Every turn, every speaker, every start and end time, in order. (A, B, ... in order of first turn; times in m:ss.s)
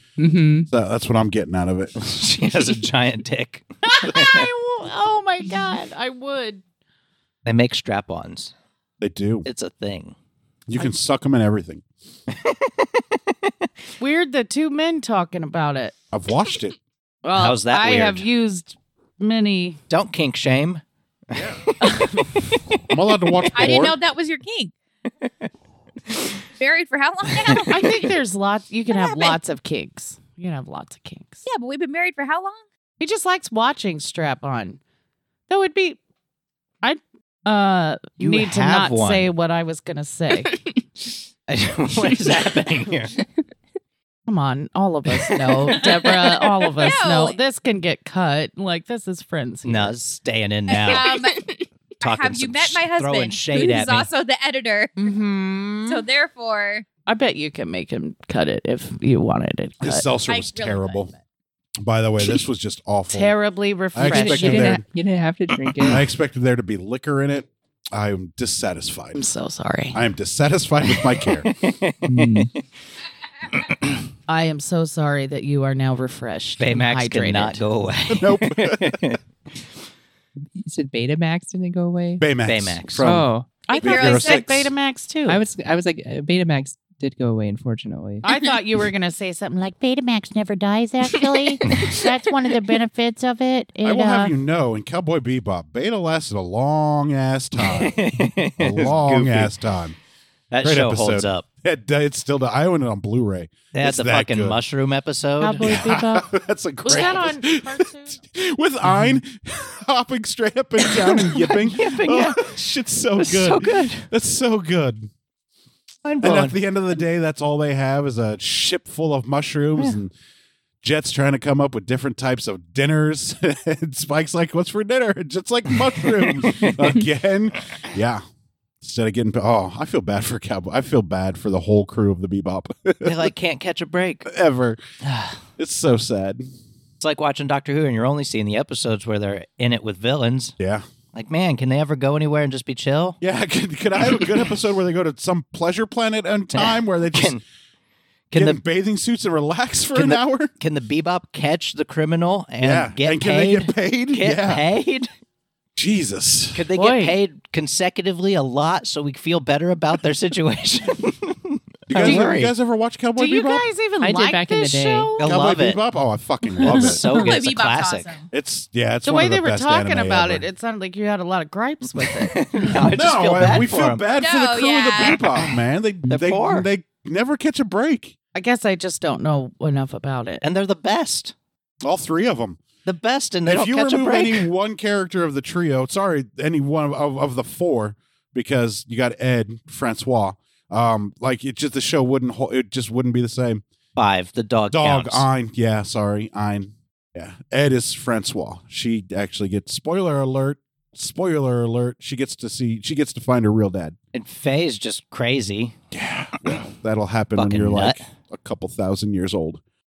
0:00.2-0:00.7 A
0:00.7-0:01.9 B
0:02.0-0:04.4 C
0:03.8-0:06.6 D
0:07.4-0:08.5 C
0:09.0-0:09.5 B
0:09.4-0:10.1 C
0:10.7-0:11.8 B
0:12.3-0:13.7 C
0:14.0-0:16.0 D
0:16.1-0:16.8 B
0:17.2-0:19.8 D
0:17.3-0:18.3 C
0:19.9-0:22.8 C
0:21.3-0:21.6 B
0:21.8-0:22.1 D
0:22.9-0:24.0 B
0:23.4-0:23.8 C
0:23.5-0:24.7 E
0:26.6-0:28.1 E
0:27.6-0:31.4 D
0:28.9-0:29.4 E
0:31.4-0:32.6 E
0:33.0-0:34.8 D
0:35.5-0:36.0 D
0:36.8-0:40.6 D
0:38.2-0:39.3 C
0:40.3-0:40.7 A
0:41.5-0:43.1 C
0:44.3-0:50.0 D
0:45.2-0:46.2 A
0:46.7-0:47.4 E
0:49.6-0:51.1 C
0:50.7-0:51.5 E
0:50.9-0:51.6 A
0:52.0-0:55.1 E
0:52.0-0:54.1 C
0:55.0-0:56.1 D
0:55.9-0:56.9 E
0:57.0-1:00.2 D
0:59.8-1:01.1 B
1:00.3-1:01.2 E
1:01.8-1:03.3 B
1:03.1-1:04.7 D
1:03.9-1:04.8 B
1:04.0-1:06.0 A
1:05.9-1:09.2 B
1:09.1-1:10.0 D
1:09.9-1:11.5 B
1:10.8-1:12.6 C
1:12.0-1:12.5 A
1:14.3-1:17.7 D
1:16.6-1:19.6 C
1:18.1-1:19.0 B
1:20.5-1:22.2 A
1:22.2-1:24.7 B
1:22.4-1:23.1 C
1:23.0-1:23.5 A
1:23.7-1:25.4 D
1:23.7-1:24.5 E
1:25.2-1:28.3 A
1:28.2-1:34.4 D
1:31.6-1:31.9 A
1:33.8-1:38.0 B
1:37.7-1:39.5 C
1:38.6-1:40.0 B
1:40.5-1:41.4 C
1:40.6-1:44.6 B
1:43.7-1:45.9 C
1:45.4-1:46.3 D
1:45.6-1:55.1 B
1:46.8-1:48.2 D
1:48.8-1:49.2 A
1:50.8-1:52.5 C
1:53.2-1:54.0 C
1:56.0-1:56.6 C
1:56.2-2:00.1 B
2:00.8-2:08.2 B
2:05.8-2:07.0 C
2:08.8-2:13.3 B
2:13.0-2:14.3 C
2:14.2-2:14.8 B
2:15.0-2:15.4 C
2:15.6-2:16.4 B
2:17.0-2:20.6 C
2:20.6-2:20.8 B
2:21.1-2:23.2 C
2:23.2-2:27.4 B
2:26.5-2:27.4 C
2:28.3-2:28.6 C
2:28.3-2:30.5 B
2:29.9-2:35.1 C
2:32.6-2:34.6 B
2:35.8-2:36.6 B
2:36.5-2:42.5 C
2:36.7-2:37.2 D
2:41.9-2:43.7 B
2:43.2-2:45.3 D
2:44.0-2:45.1 A
2:45.2-2:45.8 C
2:45.2-2:47.0 B
2:46.6-2:47.4 D
2:46.7-2:48.3 E
2:46.8-2:48.2 C
2:48.3-2:50.4 B
2:49.0-2:52.9 D
2:51.9-2:54.0 C
2:52.9-2:58.2 B
2:54.2-2:55.2 E
2:55.1-2:55.5 C
2:56.1-2:56.7 C
2:58.3-3:00.4 D
3:00.4-3:01.3 C
3:01.8-3:02.6 B
3:02.8-3:04.4 C
3:03.4-3:13.6 B
3:14.0-3:15.3 C
3:14.7-3:24.0 B
3:24.1-3:25.8 C
3:25.9-3:29.6 B
3:27.4-3:28.0 C